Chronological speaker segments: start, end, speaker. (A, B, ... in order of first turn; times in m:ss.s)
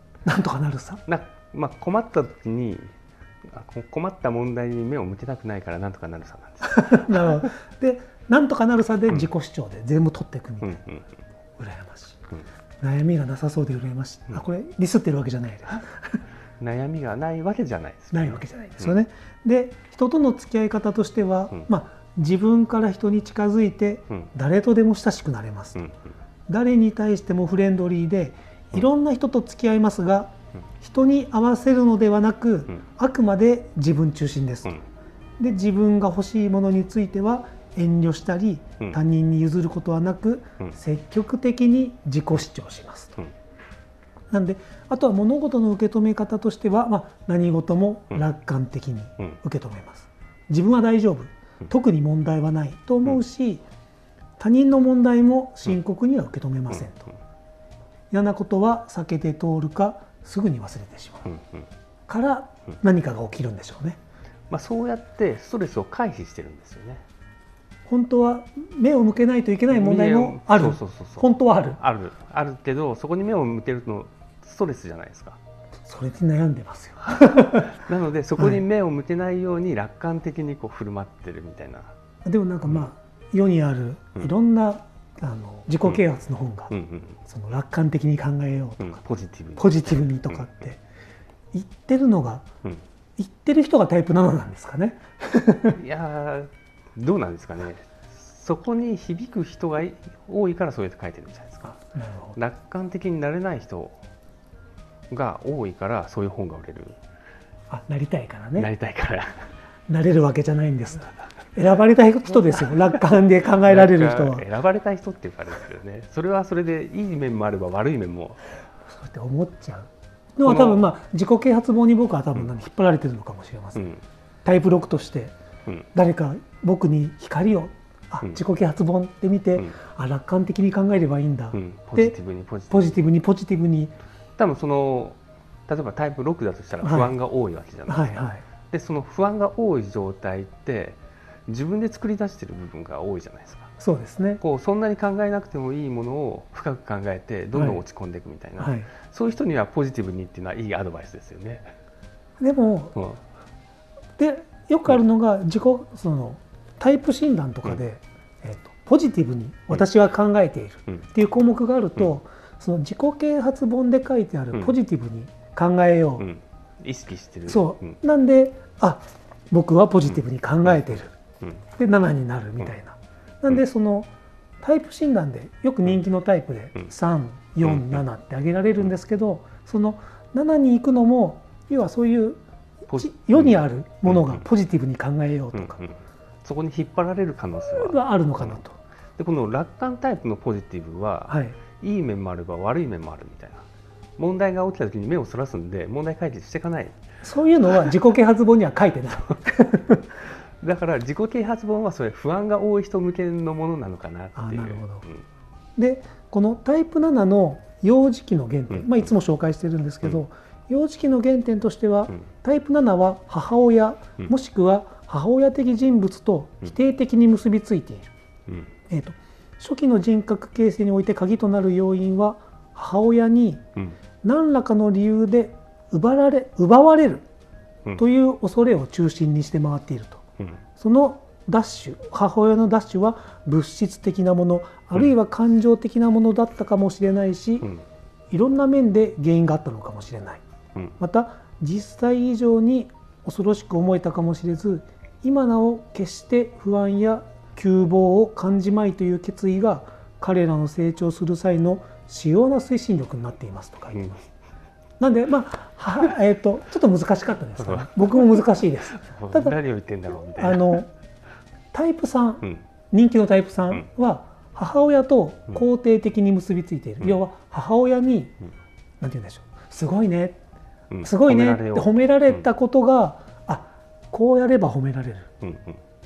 0:00.2-0:01.0 A
0:01.0-0:02.9 B
0:03.5-0:07.3 B
0:06.6-0:10.8 A
0:10.6-0:11.0 B
0:11.6-0:12.2 A
0:12.8-0:16.2 A
0:16.6-0:18.9 B
0:18.1-0:25.8 A
0:26.5-0:34.8 A
0:35.4-0:43.2 A
0:44.3-0:53.6 A
0:54.4-0:57.1 A
0:58.1-1:01.3 A
1:01.3-1:01.6 B
1:02.1-1:04.0 A
1:04.5-1:07.0 B
1:07.9-1:11.8 A
1:09.7-1:15.4 B
1:15.8-1:17.7 A
1:17.3-1:21.9 B
1:18.4-1:18.6 A
1:22.2-1:26.7 A
1:26.7-1:27.2 B
1:27.2-1:29.0 A
1:28.8-1:29.7 B
1:29.6-1:30.8 A
1:31.5-1:32.4 A
1:33.2-1:35.8 A
1:35.7-1:41.7 B
1:41.6-1:42.4 A
1:42.4-1:44.0 B
1:45.1-1:47.0 B
1:47.7-1:48.7 A
1:48.6-1:49.5 B
1:49.9-1:54.4 A
1:53.6-1:58.4 B
1:58.9-2:03.9 A
2:00.4-2:00.8 B
2:03.8-2:04.0 B
2:04.4-2:05.3 A
2:05.9-2:12.2 A
2:11.5-2:13.0 B
2:12.7-2:13.9 A
2:14.4-2:23.7 B
2:16.8-2:17.1 A
2:17.9-2:18.4 A
2:23.8-2:24.4 A
2:24.4-2:31.7 B
2:27.5-2:27.8 A
2:28.6-2:28.9 A
2:32.4-2:33.0 A
2:32.9-2:33.2 B
2:34.2-2:46.3 A
2:46.2-2:48.0 B
2:47.5-2:51.1 A
2:51.8-2:54.1 A
2:54.6-3:02.4 A
3:02.9-3:03.6 B
3:02.9-3:05.8 A
3:05.6-3:08.6 B
3:07.7-3:08.8 A
3:09.2-3:13.6 B
3:11.3-3:11.6 A
3:14.2-3:17.0 B
3:17.2-3:20.1 A
3:20.6-3:25.2 B
3:24.3-3:25.0 A
3:25.8-3:38.1 A
3:38.9-3:43.6 A
3:44.2-3:47.2 A
3:48.0-3:50.2 A
3:50.8-3:57.7 A
3:58.3-4:00.4 A
4:01.0-4:14.1 A
4:13.9-4:14.2 B
4:15.0-4:19.6 A
4:19.0-4:20.8 B
4:20.3-4:20.9 A
4:21.7-4:28.3 A
4:29.0-4:30.4 A
4:30.9-4:32.4 B
4:31.0-4:35.3 A
4:35.4-4:35.8 B